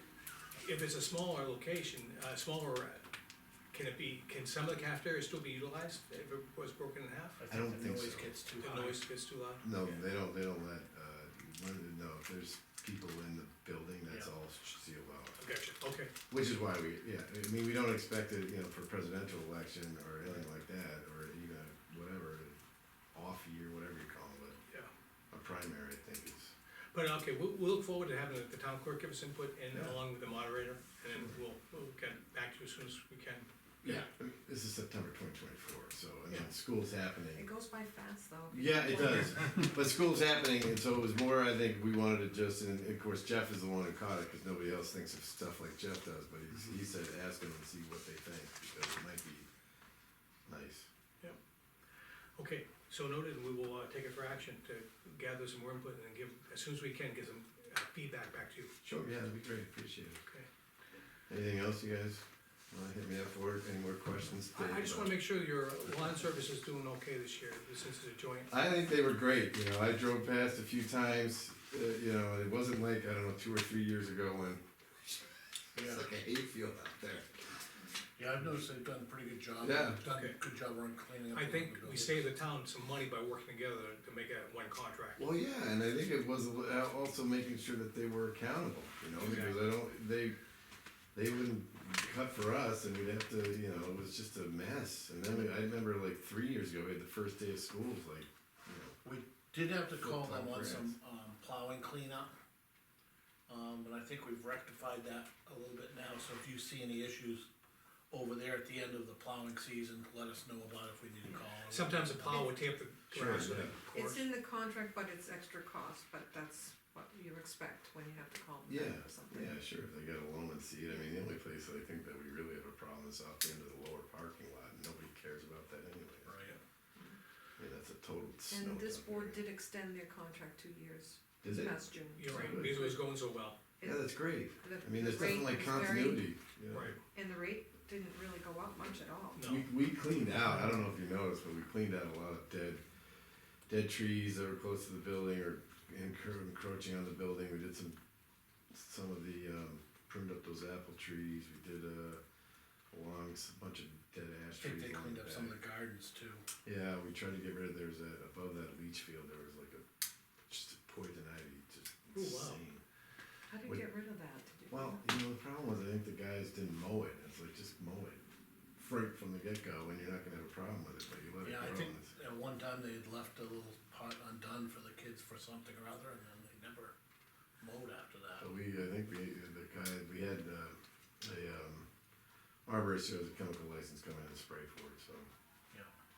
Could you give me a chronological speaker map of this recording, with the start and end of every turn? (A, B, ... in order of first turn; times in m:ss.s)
0:00.6-0:03.0 A
0:03.7-0:07.4 A
0:07.4-0:09.1 B
0:07.5-0:08.4 C
0:08.6-0:10.0 A
0:09.6-0:15.4 C
0:15.4-0:16.1 A
0:16.3-0:22.6 C
0:23.1-0:24.6 C
0:25.3-0:26.5 C
0:26.9-0:34.1 A
0:29.7-0:30.0 C
0:31.1-0:31.4 C
0:33.8-0:37.5 C
0:37.4-0:39.6 D
0:38.5-0:49.5 C
0:50.5-0:50.9 C
0:52.4-0:58.7 A
0:58.8-1:00.2 C
1:01.3-1:05.2 C
1:04.5-1:08.5 A
1:08.5-1:17.4 C
1:15.8-1:16.1 B
1:18.2-1:22.3 B
1:19.6-1:20.0 C
1:20.1-1:20.4 A
1:21.3-1:25.3 A
1:25.2-1:30.4 C
1:29.2-1:29.6 A
1:31.2-1:39.0 C
1:39.0-1:42.3 B
1:40.0-1:40.9 C
1:43.5-1:47.5 B
1:48.1-1:52.5 B
1:51.7-1:54.2 A
1:53.1-1:53.7 C
1:53.9-1:59.6 D
1:58.7-2:06.4 C
2:06.2-2:06.6 B
2:07.6-2:09.4 C
2:08.5-2:13.0 D
2:11.4-2:12.9 C
2:12.2-2:13.6 A
2:13.8-2:14.1 D
2:13.8-2:17.0 C
2:14.6-2:16.3 D
2:16.7-2:17.0 A
2:17.1-2:19.4 D
2:19.4-2:19.7 A
2:19.4-2:22.8 C
2:23.7-2:28.0 C
2:28.7-2:32.2 C
2:32.9-2:35.6 C
2:34.6-2:36.4 B
2:36.6-2:39.8 C
2:40.5-2:42.8 C
2:42.1-2:42.6 A
2:43.5-2:45.1 D
2:44.7-2:48.2 C
2:48.8-2:52.1 C
2:51.4-2:56.9 B
2:57.6-2:58.5 B
2:58.4-3:01.9 C
3:02.7-3:05.3 C